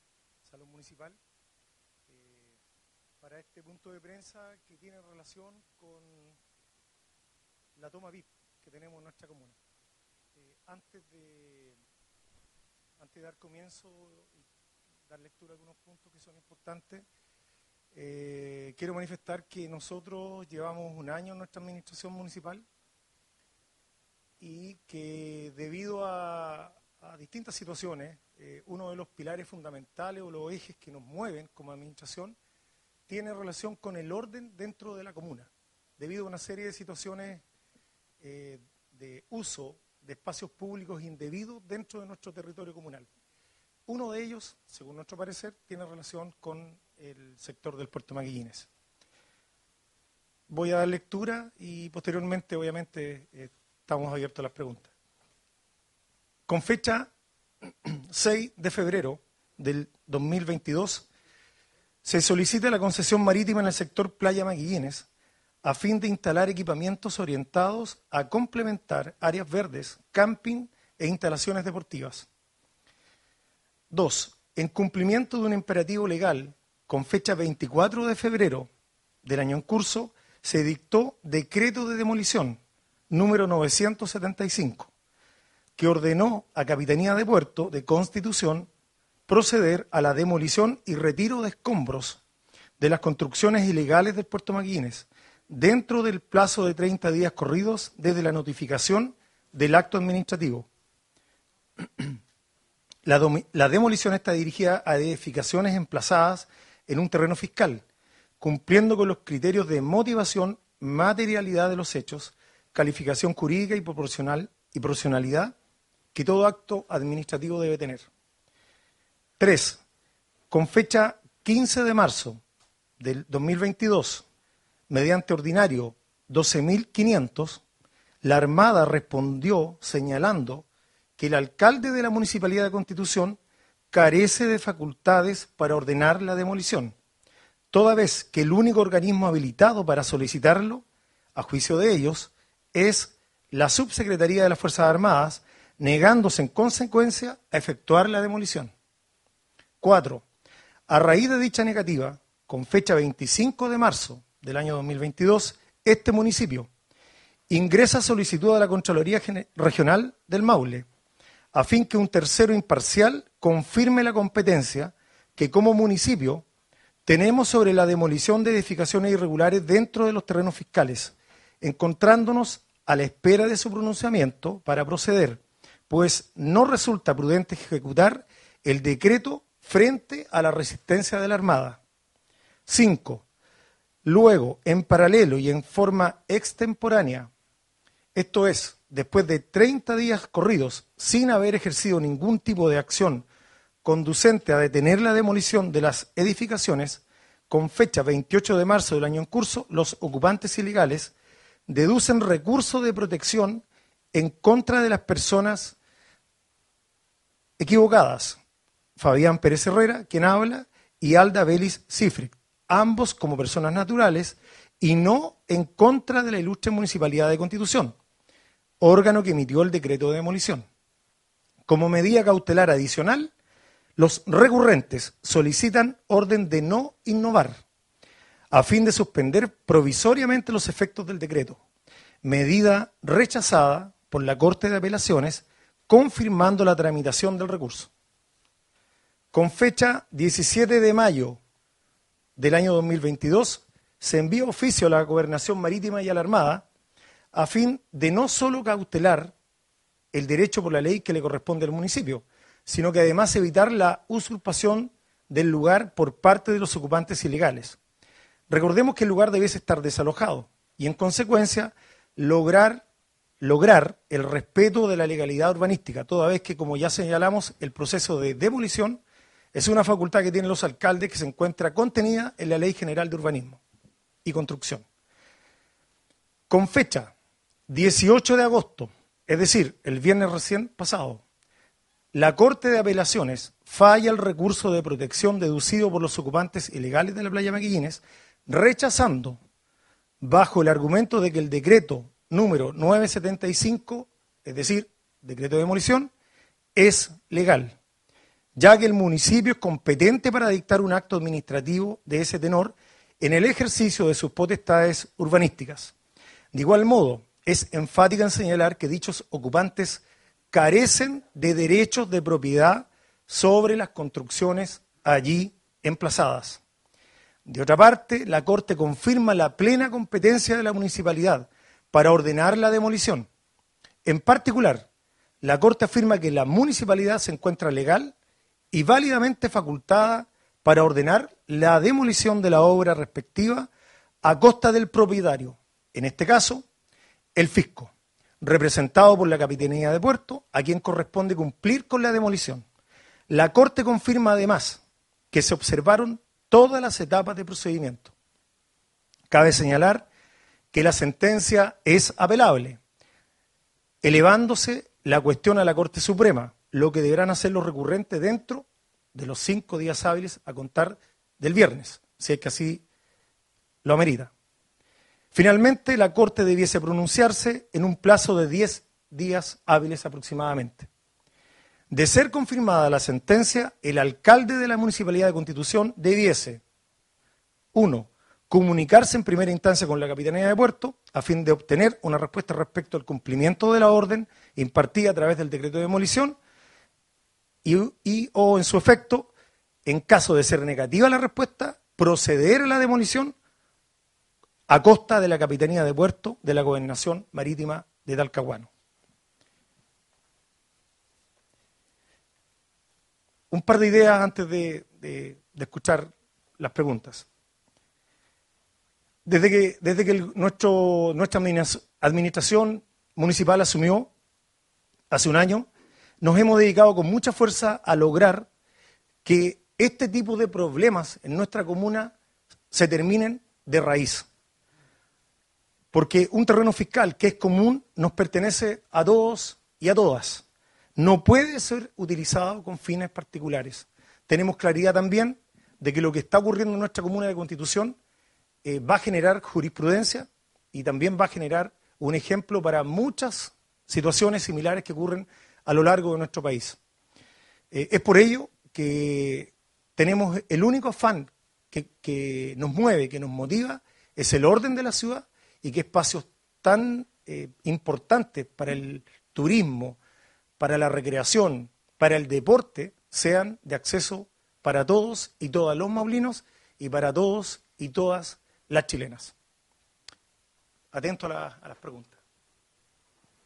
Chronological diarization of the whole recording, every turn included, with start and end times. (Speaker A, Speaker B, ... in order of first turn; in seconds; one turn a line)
Speaker A: 0.4-1.2
Speaker A: 2.1-2.6
Speaker A: 3.2-6.4
Speaker A: 7.8-9.6
Speaker A: 10.4-11.8
Speaker A: 13.0-14.4
Speaker A: 15.1-17.0
Speaker A: 17.9-22.6
Speaker A: 24.4-32.4
Speaker A: 33.1-37.4
Speaker A: 38.2-43.1
Speaker A: 43.9-48.7
Speaker A: 50.5-54.9
Speaker A: 56.5-57.1
Speaker A: 57.8-61.1
Speaker A: 62.0-65.1
Speaker A: 65.6-72.3
Speaker A: 73.9-78.7
Speaker A: 79.2-82.6
Speaker A: 83.1-84.9
Speaker A: 85.8-88.7
Speaker A: 89.3-92.2
Speaker A: 92.8-100.7
Speaker A: 101.8-102.2
Speaker A: 103.0-107.8
Speaker A: 108.4-115.5
Speaker A: 116.1-118.1
Speaker A: 119.4-119.8
Speaker A: 120.5-122.4
Speaker A: 123.0-124.2
Speaker A: 124.9-127.6
Speaker A: 128.2-130.7
Speaker A: 131.2-133.4
Speaker A: 133.9-136.9
Speaker A: 137.7-140.8
Speaker A: 141.3-148.7
Speaker A: 149.8-150.2
Speaker A: 150.9-156.7
Speaker A: 157.5-160.8
Speaker A: 161.5-166.4
Speaker A: 167.0-181.8
Speaker A: 182.7-183.2
Speaker A: 184.0-187.3
Speaker A: 188.1-193.2
Speaker A: 193.8-201.1
Speaker A: 201.7-205.8
Speaker A: 207.6-208.4
Speaker A: 209.0-217.9
Speaker A: 218.8-220.6
Speaker A: 221.7-223.3
Speaker A: 223.9-227.6
Speaker A: 228.5-231.6
Speaker A: 232.2-237.9
Speaker A: 239.3-241.4
Speaker A: 242.4-246.6
Speaker A: 247.3-249.3
Speaker A: 250.1-257.8
Speaker A: 258.5-262.8
Speaker A: 263.4-269.0
Speaker A: 269.5-273.6
Speaker A: 274.2-274.8
Speaker A: 276.5-277.1
Speaker A: 277.7-281.2
Speaker A: 282.1-289.4
Speaker A: 290.2-296.1
Speaker A: 296.7-297.8
Speaker A: 298.6-305.9
Speaker A: 306.5-316.6
Speaker A: 317.4-323.3
Speaker A: 324.0-324.9
Speaker A: 325.4-328.1
Speaker A: 328.7-333.7
Speaker A: 334.2-336.6
Speaker A: 337.4-342.6
Speaker A: 343.3-348.1
Speaker A: 349.3-350.1
Speaker A: 350.7-352.8
Speaker A: 354.0-362.8
Speaker A: 363.8-364.3
Speaker A: 365.3-370.9
Speaker A: 371.9-376.6
Speaker A: 377.7-386.4
Speaker A: 387.6-389.3
Speaker A: 389.9-393.3
Speaker A: 394.7-398.7
Speaker A: 403.5-407.3
Speaker A: 409.2-414.1
Speaker A: 415.1-415.7
Speaker A: 416.2-418.5
Speaker A: 419.2-422.1
Speaker A: 422.7-424.2
Speaker A: 425.9-430.4
Speaker A: 431.0-438.0
Speaker A: 438.6-446.8
Speaker A: 447.7-460.0
Speaker A: 460.6-469.3
Speaker A: 470.9-472.2